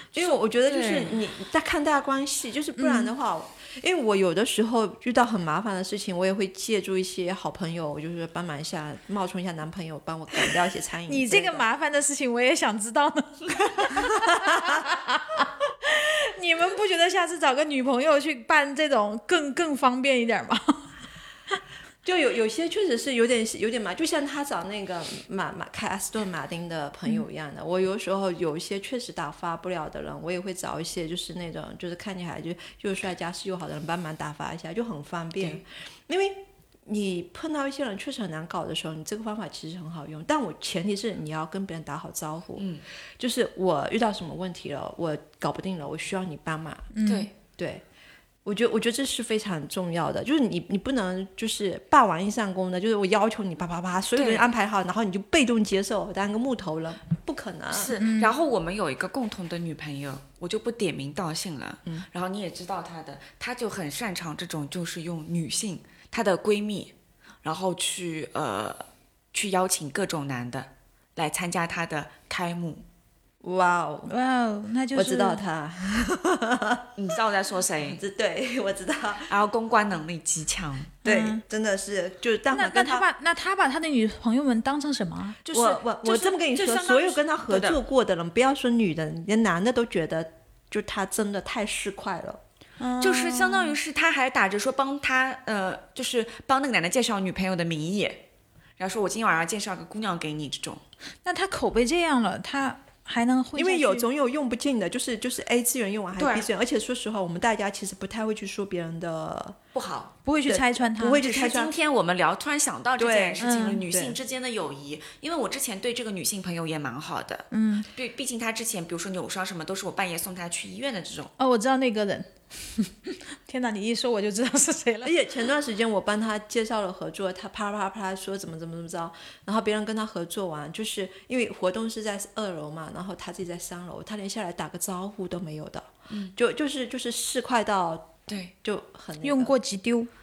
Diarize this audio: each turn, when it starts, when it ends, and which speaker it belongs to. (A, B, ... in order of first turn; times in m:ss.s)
0:00.1-0:11.7 A
0:00.2-0:01.2 B
0:02.8-0:03.1 C
0:11.1-0:20.9 C
0:14.0-0:14.8 A
0:22.0-0:46.9 A
0:42.6-0:42.8 B
0:46.9-0:47.3 C
0:47.0-0:47.3 B
0:47.6-0:47.8 A
0:48.4-0:57.9 A
0:54.2-0:54.5 B
0:57.7-1:12.8 B
0:57.9-0:58.4 C
1:13.4-1:14.1 A
1:14.1-1:15.4 C
1:14.9-1:16.9 A
1:17.0-1:18.0 B
1:17.8-1:19.3 A
1:19.3-1:21.0 B
1:21.0-1:21.4 C
1:21.0-1:23.1 A
1:22.5-1:25.4 C
1:25.4-1:27.8 B
1:25.5-1:32.4 A
1:32.8-1:33.8 C
1:33.0-1:38.2 B
1:38.8-1:40.8 B
1:41.2-1:44.0 C
1:43.6-1:49.6 A
1:46.2-1:46.5 B
1:49.7-1:50.1 B
1:50.2-1:51.2 C
1:50.5-1:51.7 A
1:51.2-2:01.3 B
1:53.0-1:54.2 A
1:53.4-1:53.9 C
1:57.5-1:57.9 C
2:01.4-2:05.2 C
2:05.0-2:19.6 A
2:16.1-2:16.4 B
2:19.2-2:20.1 C